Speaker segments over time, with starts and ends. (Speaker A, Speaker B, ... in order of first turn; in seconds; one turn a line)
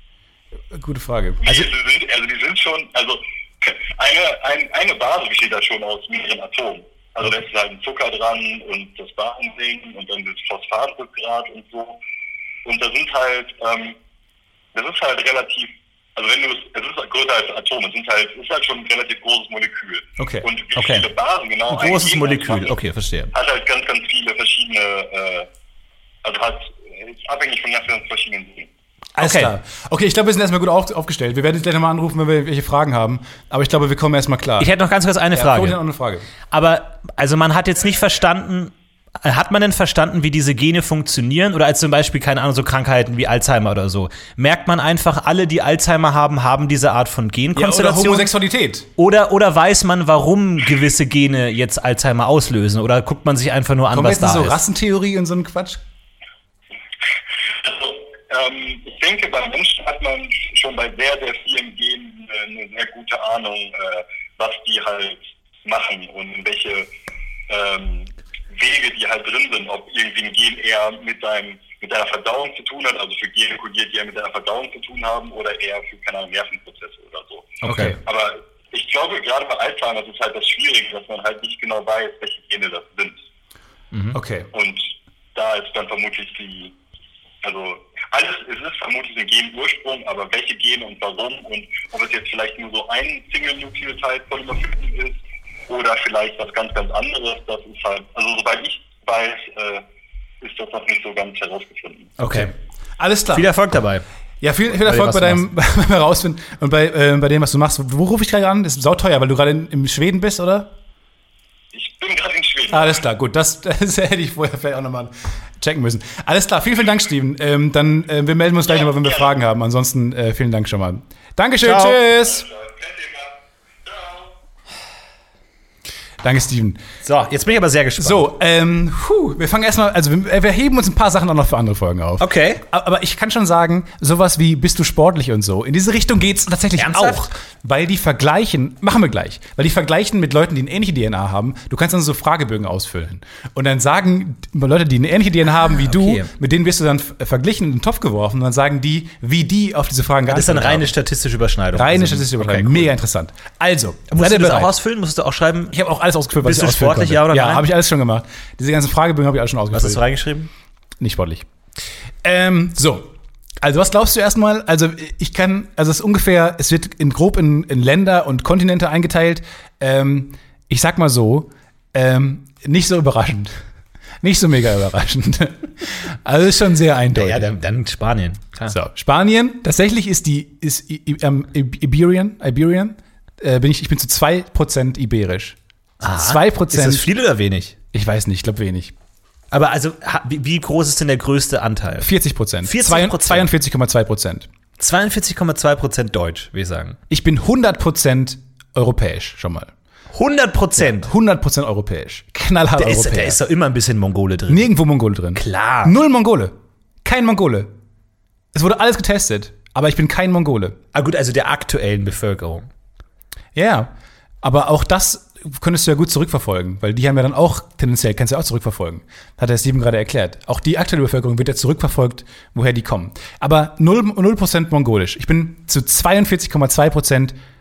Speaker A: 0.7-1.4
Speaker B: 1.4-12.0
Speaker B: 12.6-14.0
Speaker B: 14.7-22.8
Speaker A: 20.2-20.5
Speaker C: 20.8-21.1
Speaker C: 21.7-23.3
Speaker B: 23.3-25.5
Speaker B: 26.2-28.7
Speaker A: 29.1-34.7
Speaker C: 29.2-29.5
Speaker C: 34.6-35.8
Speaker A: 35.3-36.3
Speaker C: 36.5-48.3
Speaker A: 47.5-48.9
Speaker C: 49.0-54.6
Speaker A: 53.9-55.8
Speaker B: 57.6-66.9
Speaker B: 67.5-83.2
Speaker A: 77.6-78.0
Speaker C: 77.6-78.0
Speaker A: 84.1-84.5
Speaker B: 84.5-86.7
Speaker B: 87.4-99.8
Speaker B: 100.4-102.1
Speaker C: 102.2-102.5
Speaker A: 102.2-103.5
Speaker C: 103.3-104.0
Speaker A: 104.4-110.7
Speaker C: 104.8-105.5
Speaker B: 111.7-113.0
Speaker A: 112.7-122.4
Speaker B: 118.7-119.3
Speaker C: 121.6-122.0
Speaker B: 122.2-124.3
Speaker A: 126.2-126.8
Speaker C: 127.0-128.3
Speaker A: 128.0-150.9
Speaker C: 132.2-132.6
Speaker C: 136.8-137.2
Speaker C: 145.8-146.3
Speaker C: 150.3-152.9
Speaker A: 151.7-154.7
Speaker C: 154.1-155.8
Speaker A: 155.7-160.0
Speaker C: 156.4-157.7
Speaker C: 159.7-160.5
Speaker A: 161.0-161.4
Speaker A: 162.2-173.5
Speaker A: 174.2-177.5
Speaker C: 177.1-178.8
Speaker A: 178.7-185.6
Speaker C: 186.0-187.7
Speaker A: 186.1-187.1
Speaker A: 187.9-188.9
Speaker C: 189.5-192.1
Speaker A: 192.0-194.5
Speaker C: 192.6-193.5
Speaker C: 194.8-197.0
Speaker A: 197.1-199.7
Speaker C: 200.1-201.1
Speaker A: 200.8-203.4
Speaker C: 202.8-204.7
Speaker A: 204.5-207.7
Speaker C: 205.3-205.9
Speaker A: 208.5-210.8
Speaker C: 210.9-212.7
Speaker A: 213.5-213.9
Speaker A: 214.4-227.3